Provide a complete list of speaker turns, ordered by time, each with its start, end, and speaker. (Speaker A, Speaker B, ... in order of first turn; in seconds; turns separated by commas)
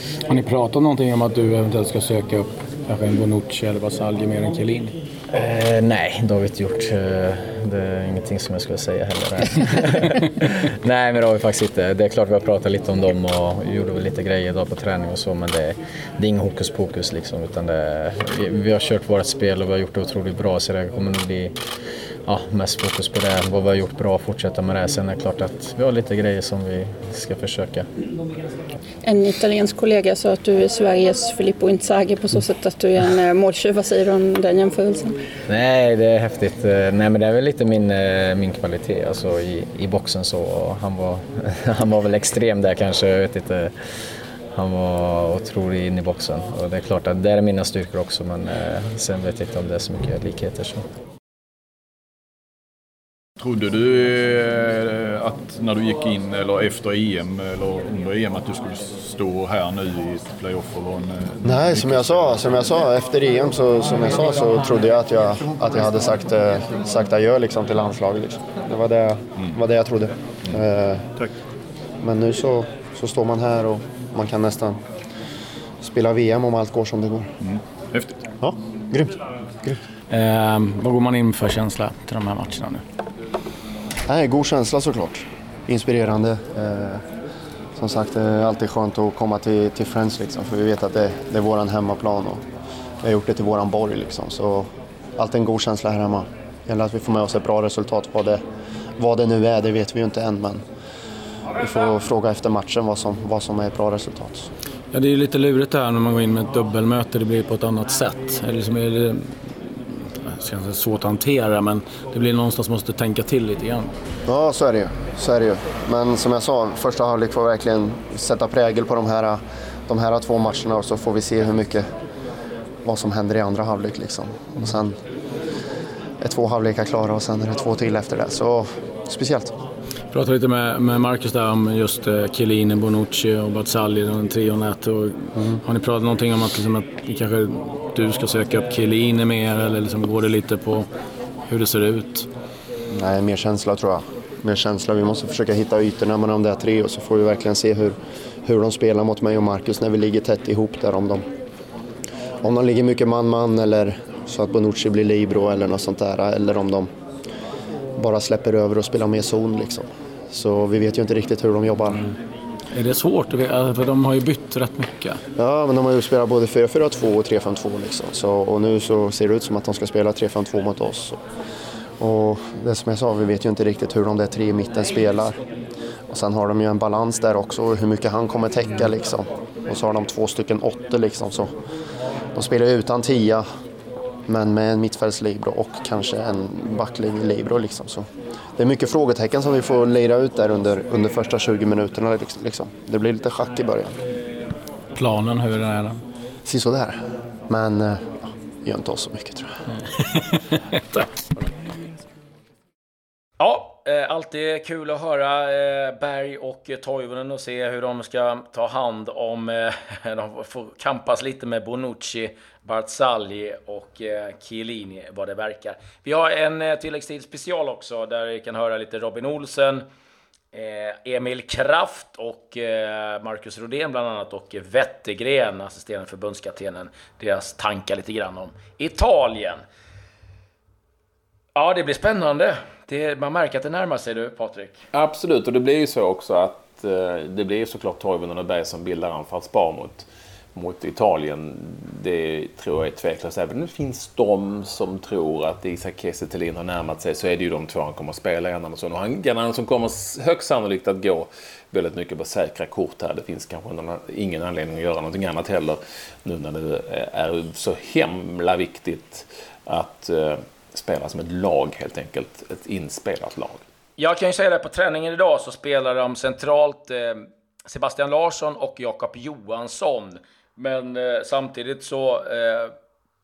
Speaker A: 0.3-4.9, Speaker B: 5.3-21.5, Speaker B: 22.2-27.9, Speaker C: 29.0-35.2, Speaker B: 35.5-43.7, Speaker B: 44.5-50.8, Speaker D: 53.4-62.5, Speaker E: 61.4-71.0, Speaker E: 72.0-74.8, Speaker E: 75.8-77.3, Speaker D: 77.4-78.2, Speaker E: 78.4-79.8, Speaker A: 80.1-82.8, Speaker E: 84.1-87.0, Speaker E: 87.8-92.4, Speaker E: 93.0-98.4, Speaker E: 99.0-100.6, Speaker E: 101.6-104.5, Speaker A: 104.9-113.9, Speaker E: 114.3-121.9, Speaker E: 122.8-125.0, Speaker E: 126.2-129.5, Speaker A: 130.1-140.9, Speaker A: 141.5-142.3, Speaker E: 142.9-151.2, Speaker E: 152.4-156.9, Speaker E: 158.0-162.1, Speaker A: 162.7-165.2, Speaker E: 165.4-171.2, Speaker E: 172.0-175.4, Speaker E: 176.1-181.5, Speaker E: 182.3-183.4, Speaker E: 184.3-188.1, Speaker E: 188.6-193.9, Speaker A: 194.9-196.0, Speaker E: 196.4-199.5, Speaker A: 199.9-201.1, Speaker A: 203.4-219.8, Speaker A: 220.5-229.6, Speaker A: 231.5-234.8, Speaker F: 234.9-263.6, Speaker A: 264.0-272.7